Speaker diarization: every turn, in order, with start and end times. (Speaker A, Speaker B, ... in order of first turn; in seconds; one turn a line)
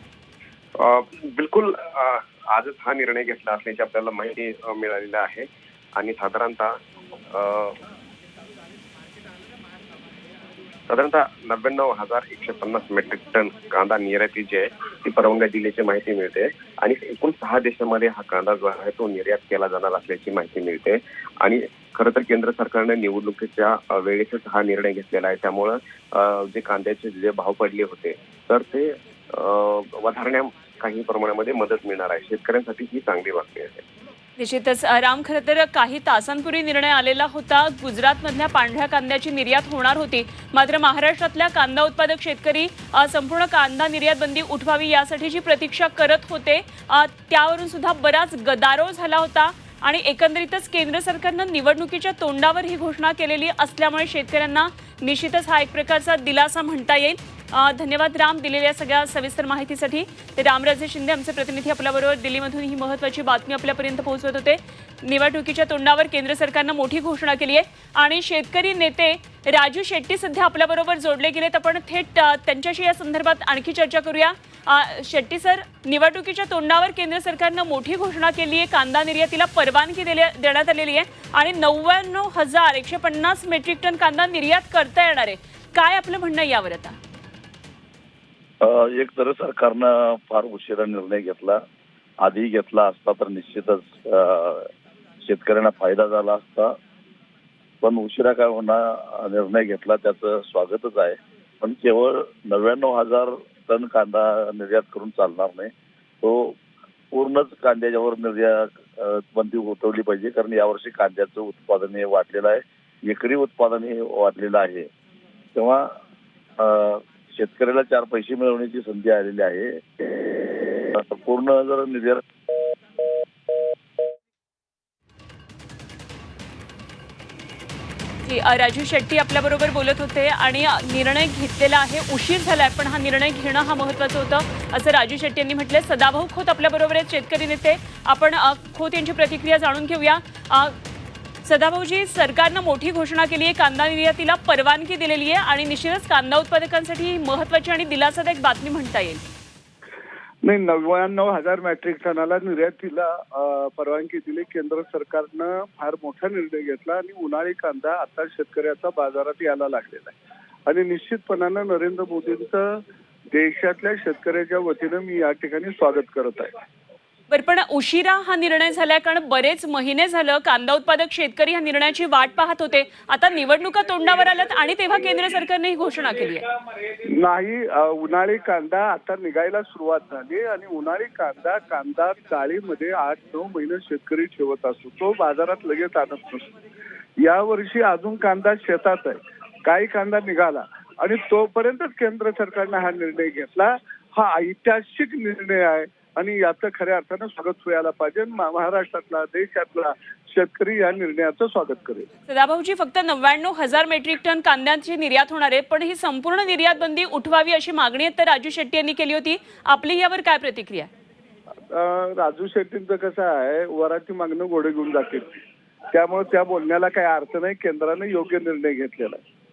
Speaker A: 0.8-6.8
Speaker A: 7.3-7.8
Speaker A: 10.9-33.8
Speaker B: 34.4-87.0
Speaker C: 88.6-91.6
Speaker C: 92.2-94.7
Speaker C: 95.2-96.8
Speaker C: 97.8-106.6
Speaker C: 107.1-114.9
Speaker C: 115.5-116.0
Speaker C: 116.6-120.3
Speaker C: 120.9-122.2
Speaker B: 128.2-140.8
Speaker B: 141.4-149.2
Speaker D: 150.4-160.1
Speaker D: 160.7-162.8
Speaker D: 163.3-166.5
Speaker B: 167.3-176.5
Speaker D: 177.2-186.5
Speaker D: 187.2-202.1
Speaker B: 202.3-210.9
Speaker D: 211.7-215.2
Speaker D: 215.9-219.2